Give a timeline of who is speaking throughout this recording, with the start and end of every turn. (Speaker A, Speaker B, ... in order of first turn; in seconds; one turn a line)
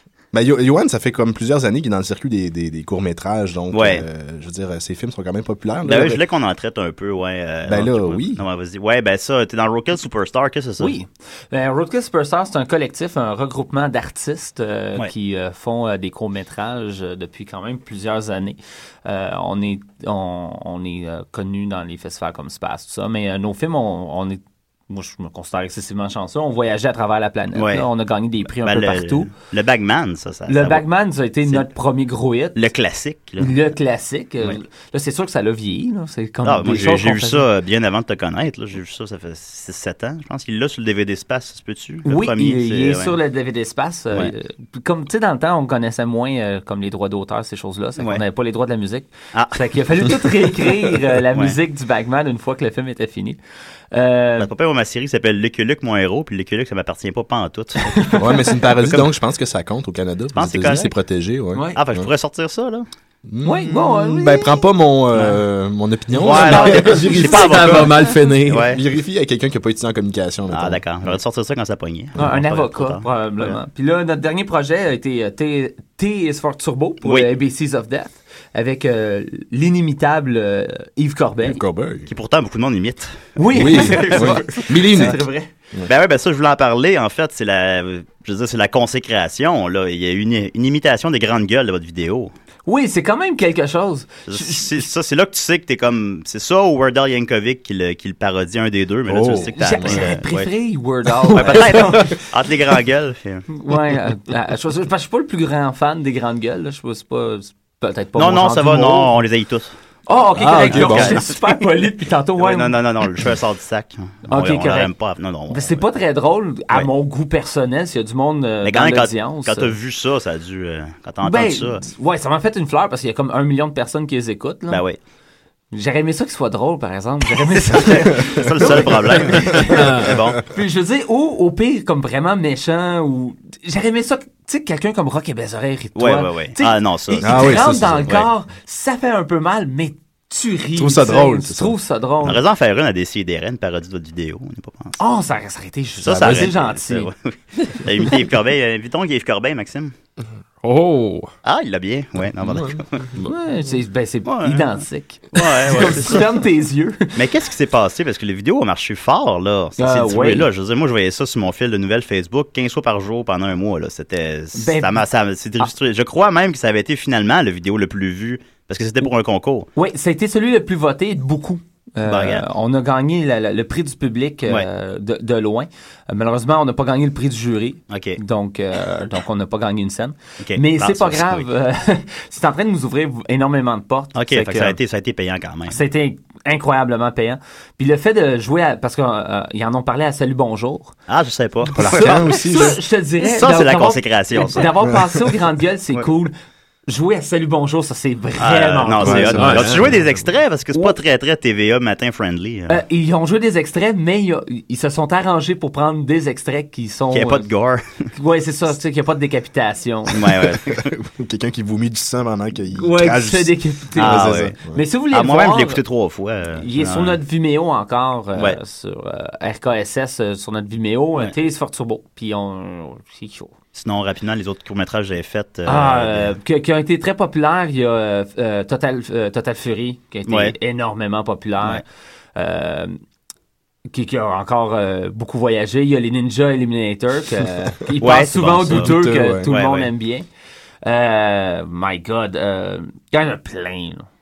Speaker A: 0.3-6.2
Speaker B: 3.7-4.0
Speaker B: 5.8-10.9
Speaker A: 7.7-8.4
Speaker C: 10.8-29.3
Speaker B: 27.5-27.9
Speaker B: 28.6-30.8
Speaker C: 30.5-32.6
Speaker B: 32.5-33.6
Speaker C: 33.4-37.5
Speaker B: 36.4-43.2
Speaker C: 42.0-53.4
Speaker C: 53.9-54.5
Speaker B: 54.4-58.1
Speaker C: 57.9-58.2
Speaker A: 58.2-62.1
Speaker B: 60.3-60.9
Speaker C: 61.5-61.8
Speaker B: 61.8-62.8
Speaker A: 63.2-67.8
Speaker C: 63.4-64.5
Speaker B: 66.2-68.8
Speaker C: 66.2-67.0
Speaker D: 67.3-68.7
Speaker A: 68.7-71.2
Speaker B: 70.5-73.5
Speaker C: 72.2-81.6
Speaker B: 77.0-77.3
Speaker A: 81.4-82.1
Speaker B: 82.1-85.1
Speaker C: 83.3-85.5
Speaker A: 83.5-85.2
Speaker B: 85.9-92.3
Speaker C: 92.7-94.8
Speaker B: 94.3-100.5
Speaker A: 99.1-100.1
Speaker C: 99.5-102.1
Speaker B: 101.3-103.5
Speaker A: 101.5-101.8
Speaker C: 103.5-109.1
Speaker B: 108.2-109.7
Speaker C: 110.1-112.8
Speaker A: 110.3-111.2
Speaker B: 110.7-111.5
Speaker B: 112.4-115.8
Speaker C: 114.3-114.9
Speaker C: 115.5-119.7
Speaker B: 118.6-121.8
Speaker C: 121.2-124.8
Speaker B: 124.7-125.0
Speaker C: 125.7-142.4
Speaker B: 127.7-130.4
Speaker D: 129.6-130.2
Speaker B: 135.9-138.3
Speaker A: 137.2-138.1
Speaker A: 140.8-141.8
Speaker B: 142.2-145.0
Speaker C: 145.0-147.1
Speaker B: 146.0-149.9
Speaker A: 146.1-146.5
Speaker D: 150.6-151.3
Speaker B: 151.4-153.1
Speaker A: 152.4-152.8
Speaker C: 153.2-157.2
Speaker B: 154.2-154.8
Speaker B: 155.3-156.3
Speaker B: 157.2-169.7
Speaker C: 159.8-160.5
Speaker C: 164.6-165.0
Speaker C: 169.8-184.8
Speaker B: 172.1-172.4
Speaker B: 177.9-178.2
Speaker B: 180.4-181.4
Speaker B: 184.2-185.8
Speaker C: 185.7-190.9
Speaker B: 191.1-192.2
Speaker A: 191.7-192.8
Speaker C: 191.7-196.3
Speaker B: 193.2-194.7
Speaker C: 196.9-199.6
Speaker B: 198.4-202.8
Speaker A: 199.0-199.9
Speaker D: 199.3-199.9
Speaker C: 200.7-201.0
Speaker C: 202.7-207.5
Speaker B: 207.1-208.0
Speaker C: 208.1-210.3
Speaker B: 210.1-210.9
Speaker A: 210.7-214.8
Speaker C: 212.7-215.8
Speaker B: 214.0-214.5
Speaker B: 215.1-217.2
Speaker C: 216.5-223.5
Speaker B: 223.7-226.3
Speaker C: 225.7-231.8
Speaker B: 230.3-230.5
Speaker C: 232.3-233.0
Speaker C: 233.9-240.3
Speaker B: 238.0-239.9
Speaker A: 238.7-239.5
Speaker C: 240.8-244.1